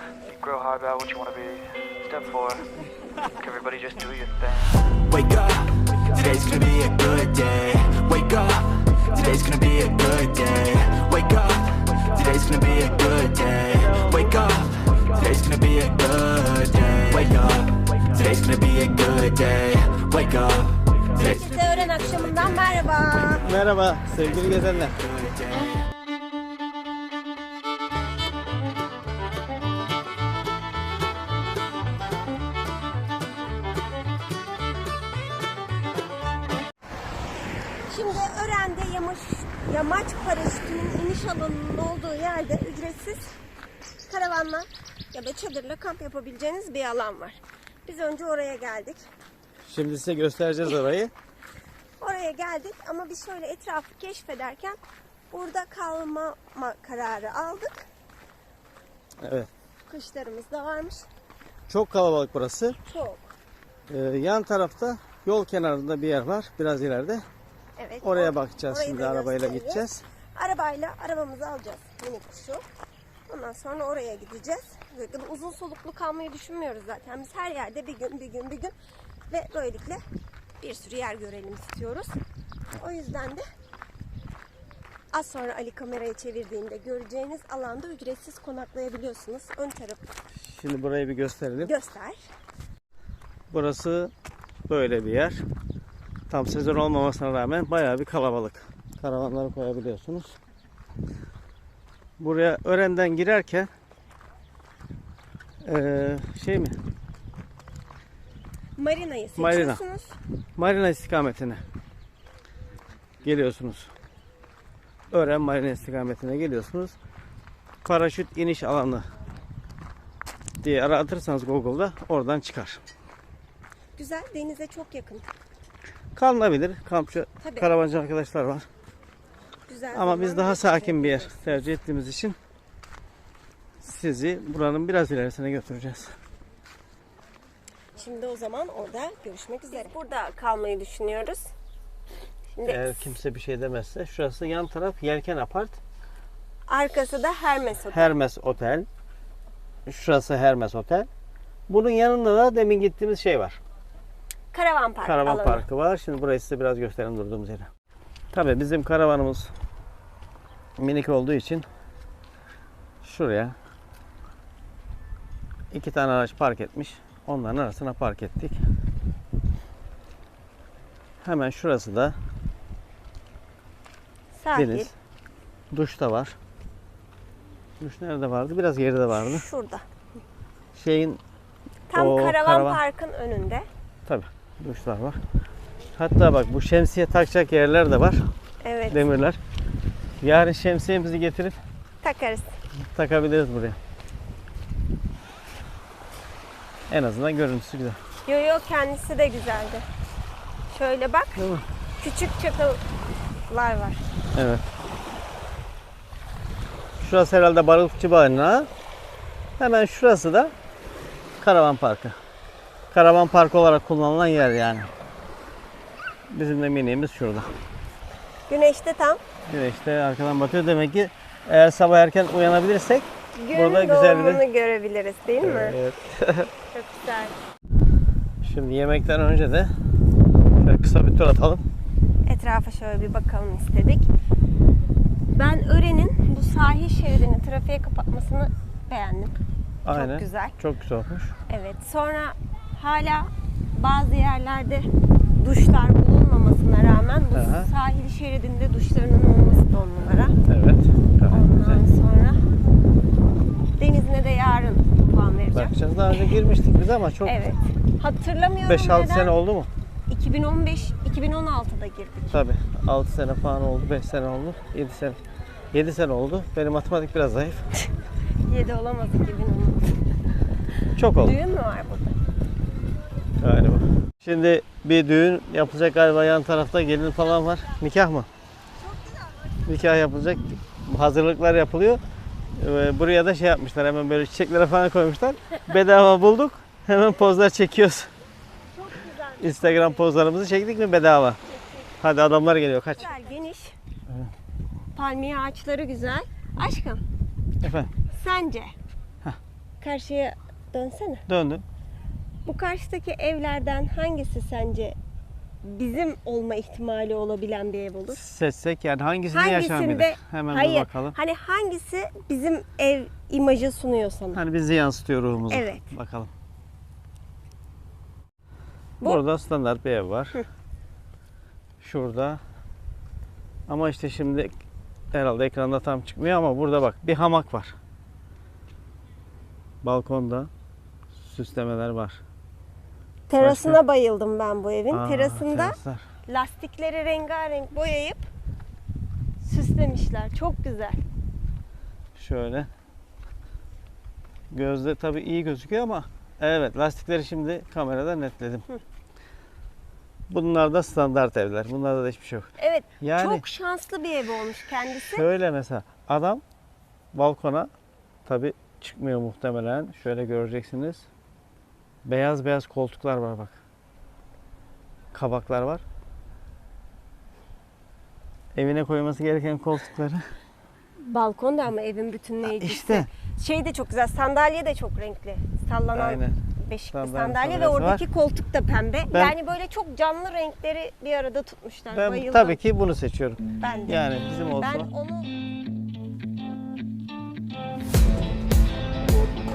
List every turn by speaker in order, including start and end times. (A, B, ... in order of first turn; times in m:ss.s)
0:00.3-0:02.6 A
0:03.4-0:04.7 A
0:05.1-0:21.4 B
0:21.1-0:23.5 C
0:23.4-0:25.0 D
0:25.2-0:25.7 B
0:37.9-0:43.4 C
0:44.0-0:49.0 C
0:49.6-0:51.1 D
0:52.0-0:57.9 C
0:59.2-0:59.5 D
0:59.9-1:01.0 C
1:01.7-1:02.8 D
1:02.8-1:03.3 C
1:03.9-1:07.2 D
1:07.8-1:12.6 C
1:08.0-1:10.0 D
1:13.3-1:18.7 C
1:19.3-1:20.0 C
1:20.6-1:22.2 C
1:22.7-1:23.4 C
1:25.1-1:30.1 C
1:30.4-1:31.7 D
1:31.6-1:32.2 C
1:33.5-1:34.1 D
1:34.7-1:35.4 D
1:36.3-1:40.4 D
1:42.2-1:43.7 D
1:45.6-1:46.8 D
1:48.8-1:50.2 C
1:49.4-1:49.8 D
1:50.6-1:51.6 D
1:53.2-1:53.9 D
1:55.1-1:57.0 D
1:57.8-1:59.1 D
2:00.6-2:02.8 D
2:03.9-2:05.3 C
2:06.1-2:08.6 D
2:07.4-2:07.7 C
2:09.6-2:11.6 C
2:09.9-2:12.4 D
2:13.8-2:16.2 D
2:17.9-2:21.5 C
2:22.5-2:23.1 C
2:22.6-2:25.8 D
2:26.7-2:28.2 C
2:27.8-2:28.9 D
2:29.9-2:31.1 D
2:31.7-2:33.6 D
2:34.5-2:35.6 C
2:35.0-2:37.7 D
2:38.3-2:39.5 D
2:40.8-2:41.7 D
2:43.0-2:43.6 D
2:45.7-2:48.6 D
2:51.2-2:52.2 D
2:54.3-2:54.9 C
2:54.5-2:54.9 D
2:55.7-2:56.4 D
2:57.8-2:59.4 D
2:59.1-2:59.8 C
3:00.7-3:01.2 D
3:01.9-3:03.7 C
3:01.9-3:02.8 D
3:04.0-3:05.2 D
3:06.0-3:08.3 D
3:08.6-3:09.1 C
3:08.9-3:09.4 D
3:10.2-3:11.6 D
3:12.0-3:12.6 C
3:12.7-3:13.8 D
3:16.9-3:18.0 D
3:18.2-3:19.8 C
3:20.7-3:21.4 C
3:21.4-3:21.6 D
3:22.0-3:22.8 C
3:23.5-3:24.0 C
3:24.3-3:24.6 D
3:27.0-3:28.7 D
3:29.6-3:30.5 D
3:31.4-3:32.2 D
3:32.9-3:34.9 D
3:36.3-3:37.5 D
3:38.5-3:39.2 C
3:39.5-3:44.4 D
3:43.3-3:45.8 C
3:45.4-3:46.5 D
3:46.7-3:47.4 C
3:48.4-3:49.7 D
3:50.6-3:51.6 D
3:52.2-3:54.1 C
3:55.3-3:59.4 C
3:59.8-4:01.3 D
3:59.9-4:00.6 C
4:01.5-4:10.3 C
4:07.3-4:07.7 D
4:10.5-4:11.8 D
4:11.3-4:12.4 C
4:13.8-4:16.3 C
4:15.5-4:17.4 D
4:17.2-4:19.3 C
4:18.6-4:19.7 D
4:20.1-4:22.4 C
4:22.3-4:25.2 D
4:25.7-4:27.7 D
4:28.4-4:30.0 C
4:31.0-4:31.4 D
4:31.2-4:32.2 C
4:33.4-4:38.3 D
4:38.8-4:39.6 C
4:39.6-4:42.0 D
4:42.6-4:48.1 D
4:48.7-4:50.1 C
4:49.4-4:51.4 D
4:52.0-4:53.1 D
4:53.0-4:53.8 C
4:54.9-4:57.0 C
4:57.6-4:57.9 D
4:58.1-4:58.7 C
4:59.8-5:01.2 C
5:01.3-5:01.6 D
5:02.4-5:05.0 C
5:05.6-5:08.2 C
5:08.1-5:11.2 D
5:09.3-5:14.4 C
5:14.3-5:16.3 D
5:15.4-5:15.9 C
5:19.0-5:20.4 D
5:21.8-5:22.4 D
5:23.7-5:24.5 D
5:25.1-5:27.8 D
5:29.8-5:30.5 D
5:31.2-5:32.2 D
5:33.3-5:38.3 C
5:33.4-5:33.8 D
5:34.9-5:36.0 D
5:39.4-5:41.0 C
5:42.1-5:42.7 D
5:44.5-5:48.6 D
5:50.3-5:52.5 D
5:52.6-5:55.2 C
5:53.0-5:53.4 D
5:54.9-5:56.4 D
5:57.1-5:57.7 D
5:58.2-6:01.1 D
6:02.0-6:03.6 D
6:05.1-6:05.8 D
6:08.5-6:10.2 D
6:11.0-6:22.6 C
6:12.4-6:13.1 D
6:15.9-6:16.4 D
6:16.9-6:18.0 D
6:21.9-6:24.9 D
6:23.6-6:25.3 C